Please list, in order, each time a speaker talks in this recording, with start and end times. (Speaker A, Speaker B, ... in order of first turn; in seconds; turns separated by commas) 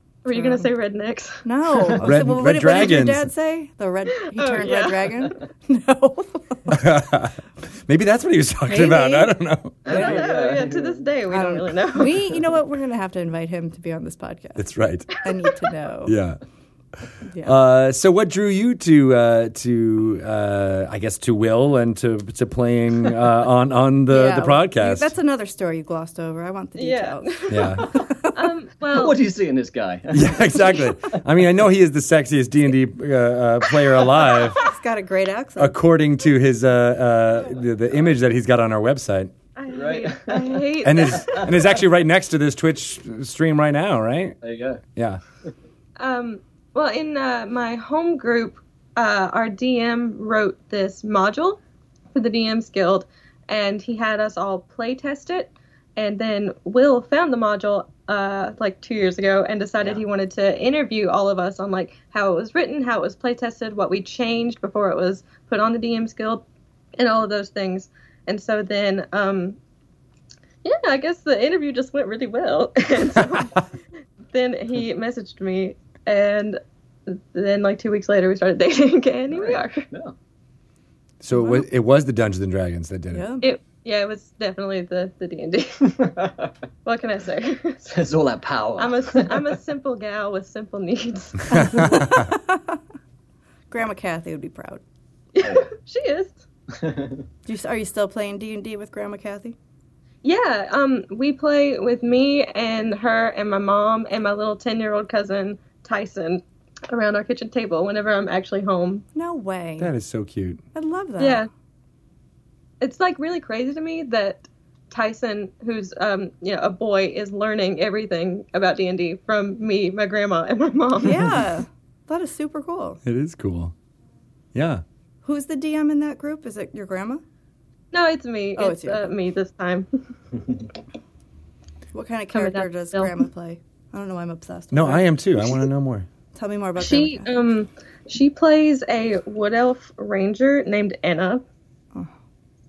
Speaker A: 0.2-2.0, Speaker B: 0.3-0.7, Speaker B: 1.4-6.7, Speaker C: 2.0-3.3, Speaker A: 4.2-5.3, Speaker C: 6.7-9.8, Speaker B: 8.7-9.3, Speaker A: 9.8-12.3, Speaker D: 9.8-11.0, Speaker B: 9.9-10.3, Speaker B: 11.3-14.7, Speaker C: 14.6-15.1, Speaker B: 15.2-16.1, Speaker C: 16.1-16.4, Speaker B: 17.3-17.6, Speaker C: 17.4-25.1, Speaker B: 24.1-28.3, Speaker A: 26.8-29.2, Speaker C: 27.5-27.8, Speaker D: 28.9-30.8, Speaker C: 30.1-34.6, Speaker B: 34.6-35.8, Speaker C: 35.6-39.3, Speaker A: 39.5-41.6, Speaker D: 39.7-41.4, Speaker C: 40.8-44.4, Speaker D: 44.4-44.8, Speaker C: 45.0-45.2, Speaker A: 46.0-51.6, Speaker A: 52.1-66.4, Speaker A: 67.0-69.6, Speaker A: 70.6-73.6, Speaker A: 74.3-79.9, Speaker D: 79.3-80.1, Speaker C: 81.2-83.3, Speaker B: 81.3-81.6, Speaker B: 83.1-83.5, Speaker A: 83.4-86.1, Speaker D: 86.2-86.5, Speaker A: 86.8-87.8, Speaker D: 87.8-89.5, Speaker A: 88.8-92.1, Speaker B: 91.5-92.8, Speaker B: 93.7-94.8, Speaker A: 95.3-96.4, Speaker D: 96.8-97.2, Speaker B: 97.5-99.5, Speaker A: 100.2-109.0, Speaker B: 109.1-109.9, Speaker C: 109.8-110.6, Speaker B: 110.7-111.5, Speaker A: 111.2-111.5, Speaker A: 112.8-121.2, Speaker B: 121.0-123.0, Speaker C: 123.0-123.7, Speaker C: 124.5-124.8, Speaker B: 125.2-127.2, Speaker A: 127.9-129.9, Speaker B: 128.6-129.1, Speaker B: 131.9-135.5, Speaker A: 132.3-133.2, Speaker C: 134.7-136.1, Speaker B: 136.3-137.3, Speaker A: 136.8-141.4